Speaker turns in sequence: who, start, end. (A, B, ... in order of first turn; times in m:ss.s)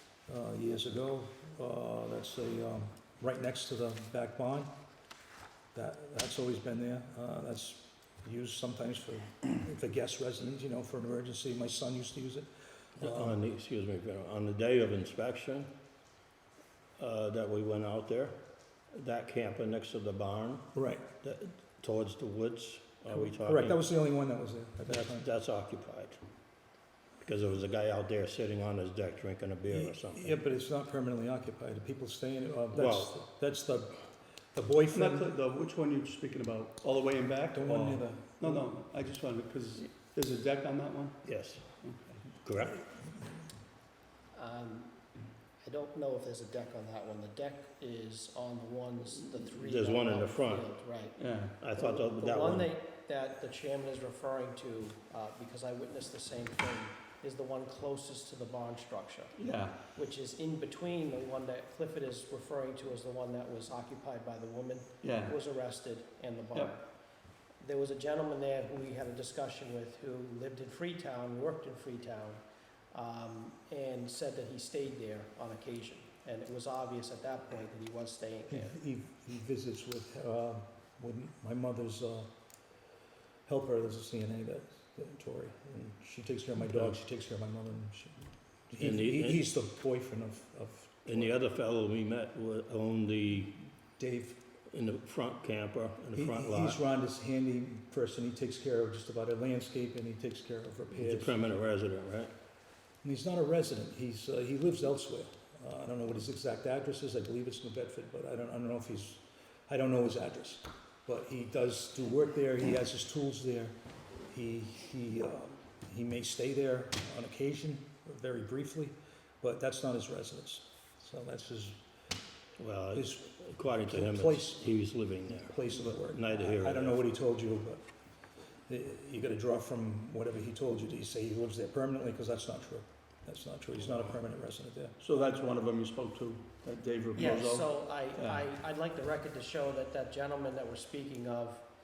0:00.3-0:04.7 A
0:05.7-0:13.4 A
0:13.0-0:15.7 B
0:17.0-0:18.4 B
0:18.9-0:23.8 B
0:20.7-0:21.0 A
0:23.1-0:25.2 A
0:24.9-0:26.2 B
0:27.2-0:30.4 B
0:29.7-0:35.3 A
0:32.7-0:33.2 B
0:34.9-0:41.2 C
0:37.5-0:38.6 A
0:41.2-0:41.7 B
0:41.8-0:42.1 C
0:42.4-0:42.8 B
0:44.3-0:45.0 D
0:45.6-0:59.3 D
0:49.5-0:50.7 B
0:51.2-0:51.6 C
0:51.6-0:52.7 B
0:59.4-0:59.8 C
0:59.9-1:06.9 D
1:05.0-1:05.4 C
1:07.6-1:18.8 D
1:18.5-1:22.3 A
1:23.4-1:31.3 A
1:28.7-1:29.4 B
1:31.0-1:33.6 B
1:34.0-1:34.4 A
1:34.7-1:36.8 B
1:36.1-1:41.4 A
1:40.9-1:42.3 B
1:43.0-1:53.8 A
1:54.3-2:01.8 A
2:02.6-2:07.0 B
2:02.9-2:04.7 A
2:05.3-2:07.8 A
2:08.7-2:15.0 A
2:15.0-2:18.5 C
2:17.1-2:21.6 D